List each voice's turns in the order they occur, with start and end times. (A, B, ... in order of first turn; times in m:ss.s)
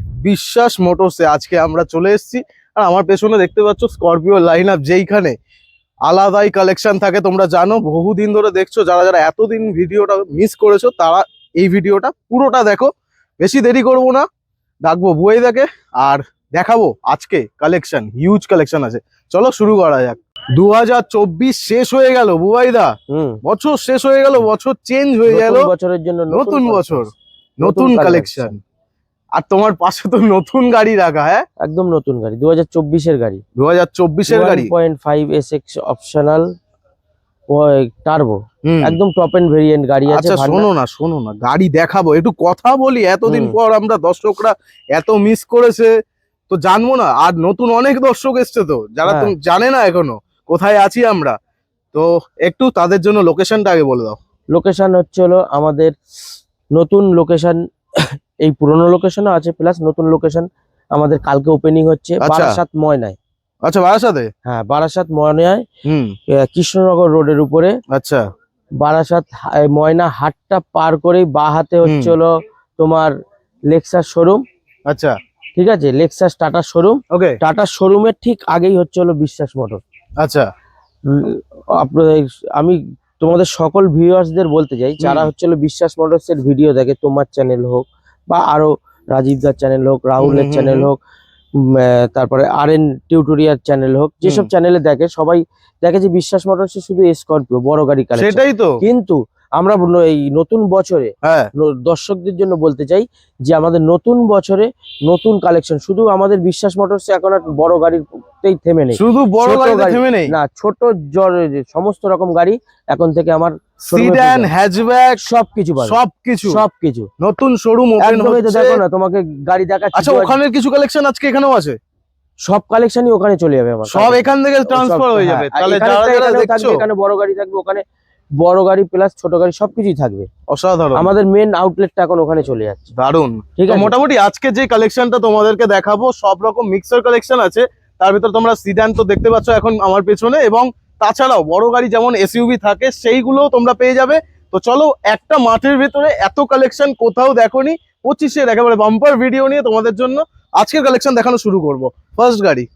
0:00.2-0:05.4 A
0:06.0-0:14.3 A
0:14.8-0:22.9 A
0:23.1-0:23.4 B
0:23.4-0:25.7 A
0:25.3-0:28.6 B
0:26.3-0:28.6 A
0:29.4-0:31.4 A
0:31.6-0:33.4 B
0:33.6-0:34.7 A
0:34.3-0:36.5 B
0:37.5-0:40.7 B
0:38.7-0:39.0 A
0:40.1-0:46.0 A
0:43.2-0:43.6 B
0:46.5-0:51.4 A
0:49.1-0:49.3 B
0:51.9-0:54.2 A
0:54.5-0:55.9 B
0:56.7-1:03.2 B
1:02.2-1:02.5 A
1:03.6-1:04.3 A
1:04.4-1:05.6 B
1:05.8-1:06.1 A
1:06.3-1:07.8 B
1:07.9-1:08.2 A
1:08.8-1:13.1 B
1:11.8-1:12.1 A
1:13.7-1:14.4 B
1:14.9-1:15.2 A
1:15.6-1:19.8 B
1:17.1-1:17.4 A
1:20.2-1:20.5 A
1:21.1-1:31.0 B
1:25.0-1:25.3 A
1:30.2-1:30.9 A
1:31.6-1:54.5 B
1:34.2-1:34.5 A
1:38.2-1:38.8 A
1:41.2-1:41.5 A
1:48.9-1:50.3 A
1:53.9-1:55.2 A
1:55.2-1:57.1 B
1:55.8-1:56.6 A
1:57.2-1:58.8 A
1:58.0-2:00.4 B
2:00.0-2:01.8 A
2:02.4-2:07.8 B
2:03.9-2:06.8 A
2:08.4-2:10.3 B
2:10.5-2:11.1 A
2:11.0-2:12.9 B
2:13.0-2:32.7 A
2:13.6-2:13.9 B